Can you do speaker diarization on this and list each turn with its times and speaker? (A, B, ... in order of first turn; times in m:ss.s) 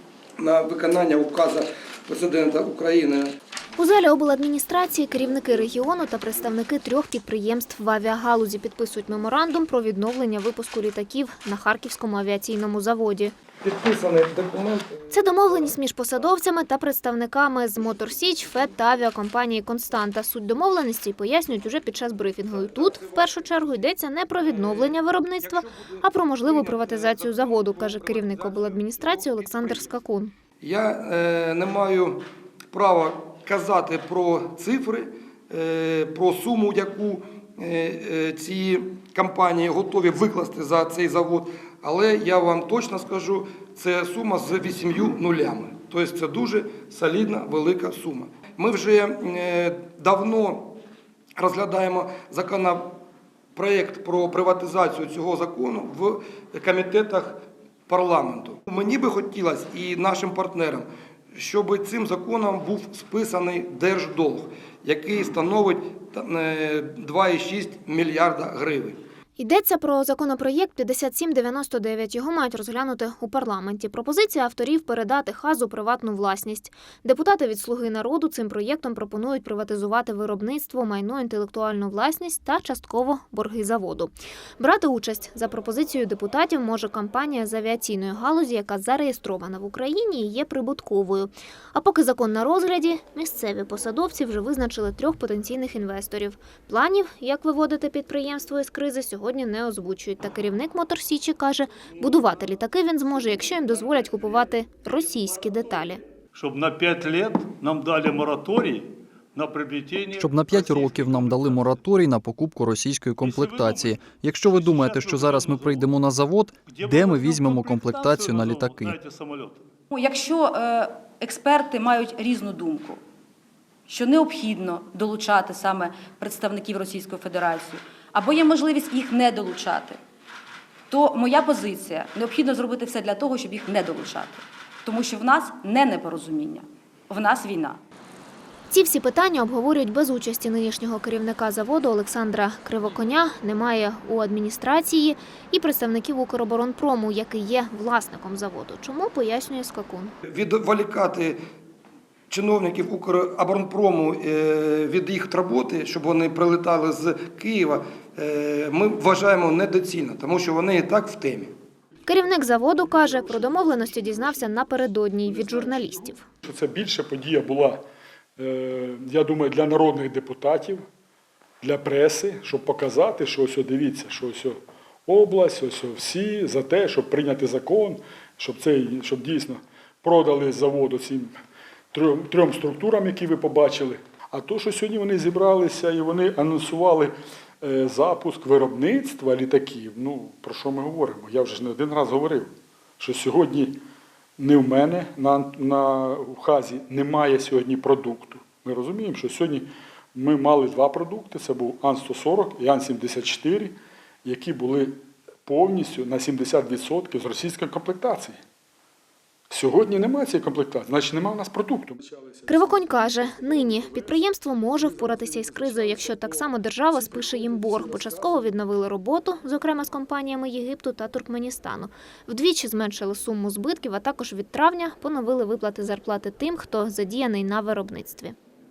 0:00.4-0:03.3 A
0:03.8-0:13.3 B
0:13.6-0:15.1 A
0:15.1-0:30.3 B
0:22.9-0:23.2 A
0:24.4-0:29.9 A
0:30.6-0:50.8 A
0:51.4-0:53.0 A
0:53.6-1:09.0 A
1:09.4-1:46.0 B
1:46.3-1:51.7 C
1:50.2-1:59.0 D
1:53.2-1:56.0 C
1:56.6-1:59.6 C
1:59.9-2:03.0 E
2:03.9-2:10.0 E
2:10.9-2:17.8 E
2:18.7-2:30.1 B
2:30.3-2:31.4 A
2:32.3-2:41.5 A
2:42.1-2:46.2 B
2:46.4-2:47.8 F
2:48.4-2:50.8 F
2:51.6-3:01.4 F
3:01.9-3:13.8 F
3:14.4-3:28.4 F
3:29.5-3:34.2 F
3:32.5-3:48.4 B
3:34.8-3:38.4 F